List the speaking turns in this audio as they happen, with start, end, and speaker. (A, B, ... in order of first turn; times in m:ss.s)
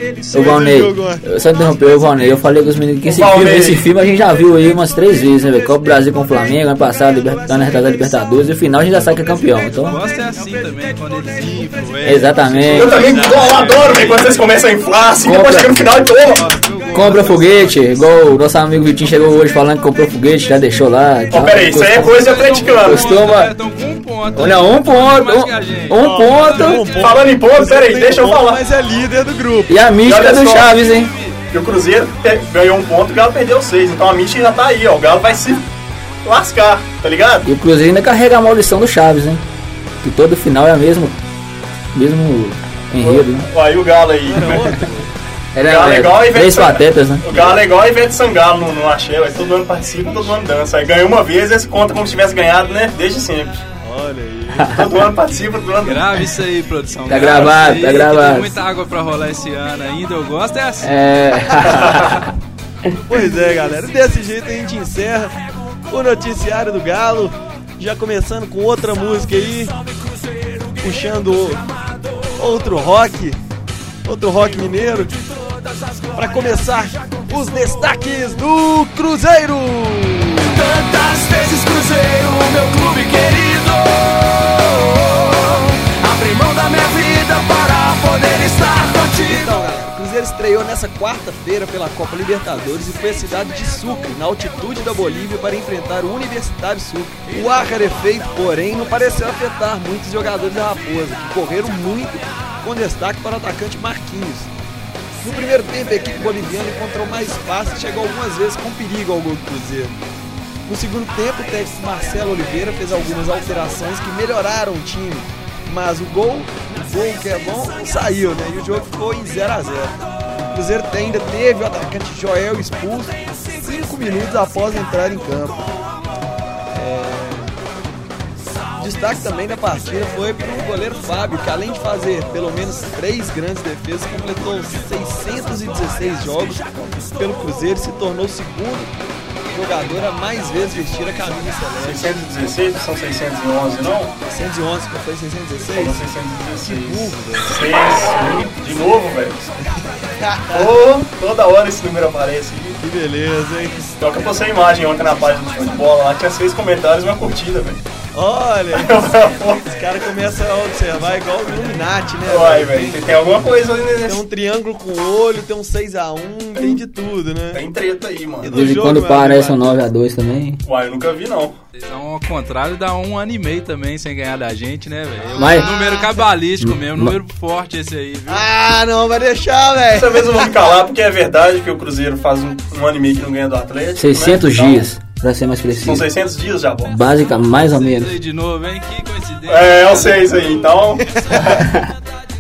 0:00.2-0:01.2 A
0:00.3-0:10.0 B
0:03.0-0:03.9 C
0:09.7-0:14.5 D
0:12.0-0:13.0 B
0:12.7-0:16.4 C
0:15.2-0:15.9 B
0:16.3-0:17.9 D
0:16.9-0:22.2 B
0:21.3-0:23.2 C
0:22.0-0:27.1 D
0:22.7-0:23.5 B
0:24.3-0:26.9 B
0:26.0-0:29.8 A
0:27.0-0:28.6 C
0:29.7-0:31.1 B
0:30.0-0:30.8 C
0:30.8-0:31.4 D
0:31.5-0:35.7 C
0:36.2-0:37.5 C
0:37.4-0:39.4 B
0:40.0-0:41.2 B
0:41.9-0:43.5 B
0:43.0-0:44.7 C
0:44.2-0:45.1 A
0:45.5-0:47.5 B
0:45.6-0:53.6 C
0:53.8-0:54.8 A
0:54.5-0:54.9 B
0:54.7-0:56.0 C
0:55.8-1:00.9 D
0:57.1-0:58.5 B
1:00.8-1:02.3 B
1:01.6-1:02.2 C
1:03.1-1:09.8 A
1:10.8-1:11.6 A
1:12.3-1:13.4 A
1:14.0-1:15.1 A
1:16.1-1:20.6 A
1:20.4-1:29.5 E
1:29.2-1:44.5 A
1:45.2-1:50.0 A
1:50.7-2:05.7 A
2:06.7-2:07.5 A
2:08.8-2:18.9 A
2:19.5-2:22.1 A
2:21.8-2:24.1 C
2:24.2-2:26.0 A
2:25.7-2:29.5 C
2:26.6-2:27.6 A
2:30.2-2:30.8 A
2:30.5-2:32.8 C
2:32.8-2:34.0 A
2:34.0-2:37.8 C
2:38.1-2:43.2 A
2:38.7-2:39.7 C
2:42.2-2:44.2 C
2:44.0-2:47.6 A
2:47.5-2:48.7 C
2:48.4-2:49.7 A
2:48.5-2:50.6 B
2:50.6-2:51.6 C
2:51.7-2:58.5 D
2:55.3-2:55.7 B
2:56.6-2:57.2 B
2:58.3-3:00.5 A
2:59.9-3:04.8 C
3:04.0-3:06.1 B
3:05.8-3:06.9 C
3:06.8-3:08.2 B
3:07.5-3:10.8 D
3:09.5-3:11.7 C
3:11.0-3:11.5 A
3:11.6-3:11.9 B